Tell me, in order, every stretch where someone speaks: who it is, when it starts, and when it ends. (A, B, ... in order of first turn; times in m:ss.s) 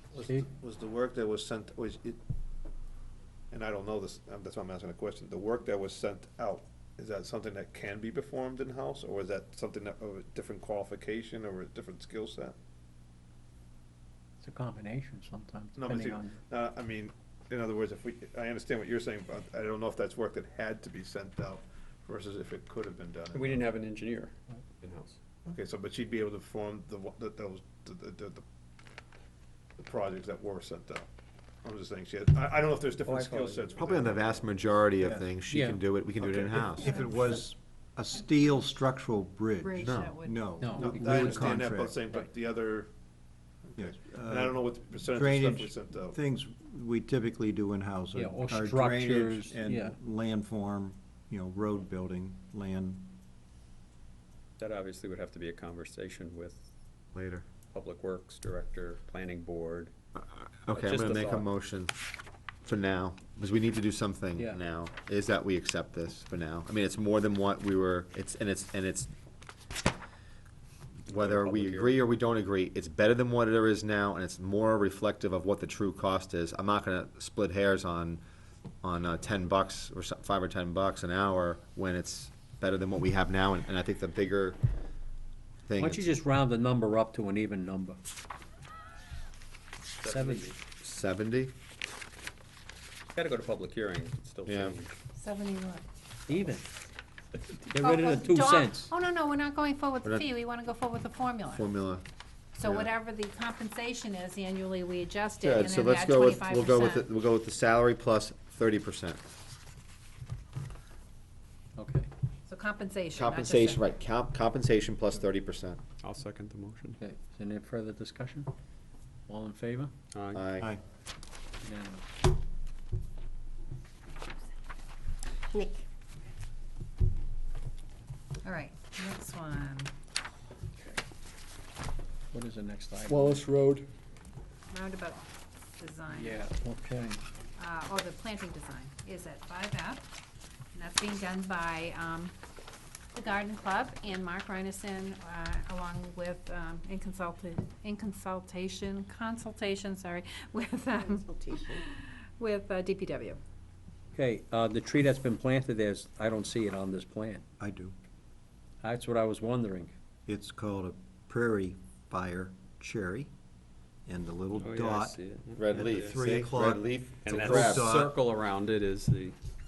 0:00.1-0:02.2 A
0:03.5-0:12.5 A
0:14.4-0:16.3 B
0:15.8-0:23.7 A
0:23.3-0:25.2 C
0:25.4-0:28.4 A
0:29.8-0:31.1 A
0:31.6-0:34.8 A
0:33.0-0:33.9 C
0:33.8-0:37.0 D
0:35.0-0:35.3 E
0:35.5-0:35.8 B
0:36.2-0:42.0 E
0:36.3-0:36.7 A
0:39.6-0:40.9 F
0:39.8-0:40.1 D
0:40.6-0:41.6 B
0:40.8-0:42.9 A
0:43.7-0:46.2 A
0:43.8-0:53.1 E
0:48.2-0:49.9 B
0:54.6-0:56.6 C
0:57.1-0:57.4 D
0:57.7-0:59.9 C
1:00.2-1:01.9 D
1:00.7-1:01.5 C
1:02.6-1:09.1 D
1:04.4-1:04.6 B
1:11.1-1:18.2 D
1:11.1-1:12.0 C
1:18.8-1:24.6 D
1:25.7-1:26.0 D
1:25.8-1:28.0 B
1:30.0-1:30.6 C
1:30.1-1:30.4 B
1:30.8-1:31.5 D
1:33.1-1:34.9 C
1:34.4-1:34.8 D
1:35.1-1:35.8 F
1:36.3-1:36.6 B
1:37.7-1:38.9 B
1:37.8-1:41.7 F
1:41.5-1:42.0 D
1:42.6-1:47.1 F
1:42.6-1:42.9 D
1:45.4-1:49.2 D
1:51.8-1:52.1 B
1:52.5-1:53.9 F
1:53.1-1:55.8 D
1:56.0-1:57.0 C
1:57.0-1:58.5 B
1:59.3-1:59.9 B
2:00.1-2:00.4 C
2:00.3-2:00.7 D
2:01.6-2:02.0 B
2:08.4-2:09.9 F
2:12.3-2:13.4 B
2:13.2-2:13.8 A
2:14.7-2:16.4 F
2:16.1-2:17.2 B
2:17.6-2:20.0 F
2:20.7-2:22.3 F
2:23.1-2:33.4 F
2:34.1-2:37.4 B
2:37.6-2:38.0 E
2:38.8-2:39.9 B
2:40.3-2:43.3 E
2:44.0-2:48.1 E
2:44.6-2:46.1 C
2:45.6-2:47.8 D
2:47.2-2:49.4 C